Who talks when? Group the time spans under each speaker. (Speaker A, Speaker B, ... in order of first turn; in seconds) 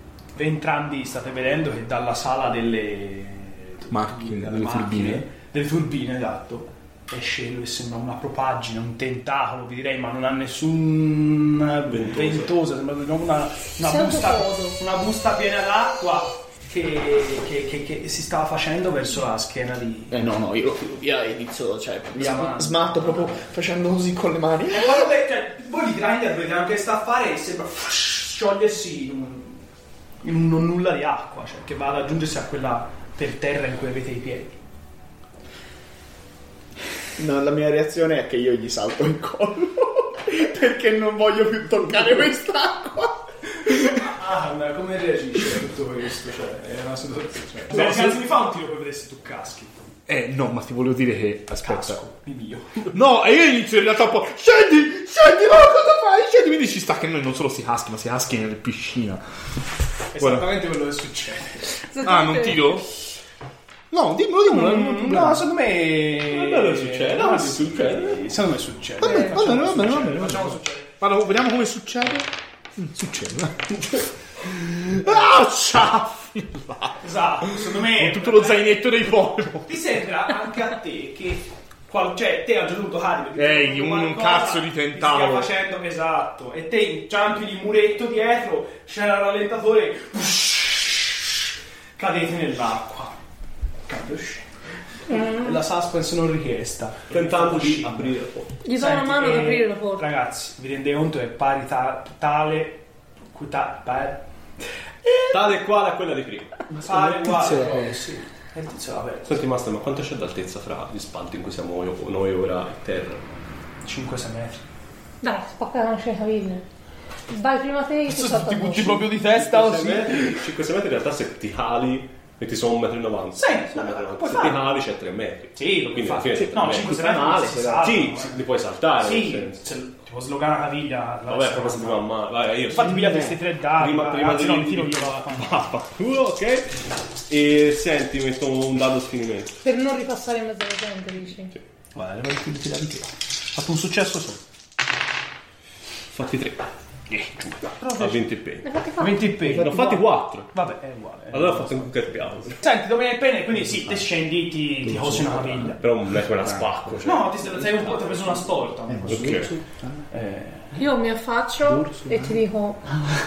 Speaker A: 0.3-20.1, 22.2-23.3, 24.7-29.6, 30.2-34.6, 43.8-49.7, 51.6-52.9, 60.1-61.7, 64.5-70.9, 77.0-78.8, 79.7-93.2, 93.9-94.5, 95.1-98.2, 98.8-102.8, 103.3-104.2, 106.8-109.4, 113.8-114.6, 118.1-120.4, 123.4-124.7, 125.6-128.4, 129.0-132.1, 132.7-135.7, 141.9-144.4, 147.1-148.3, 149.0-151.9, 152.6-155.8, 157.0-159.6, 160.1-160.8
Speaker B: 3.9-5.2, 47.7-48.2, 50.1-52.0, 52.9-59.2, 60.2-60.5, 62.0-62.9, 63.9-65.5, 69.0-79.8, 83.4-85.5
Speaker C: 11.9-12.6, 66.2-68.3, 97.1-98.6, 105.3-106.7, 109.3-113.3, 118.9-127.0, 127.8-129.6, 131.3-139.6, 146.1-146.6, 147.9-148.7, 149.4-150.6, 151.3-152.6, 155.8-158.1, 159.1-159.5
Speaker D: 13.8-14.8, 61.9-62.8, 95.1-95.6, 98.6-100.0, 115.2-116.7, 117.3-119.0, 139.6-141.6, 148.6-149.4, 160.7-162.9
Speaker E: 20.1-25.1, 37.2-44.1, 106.7-108.1, 126.3-128.0, 132.8-133.4, 159.0-159.6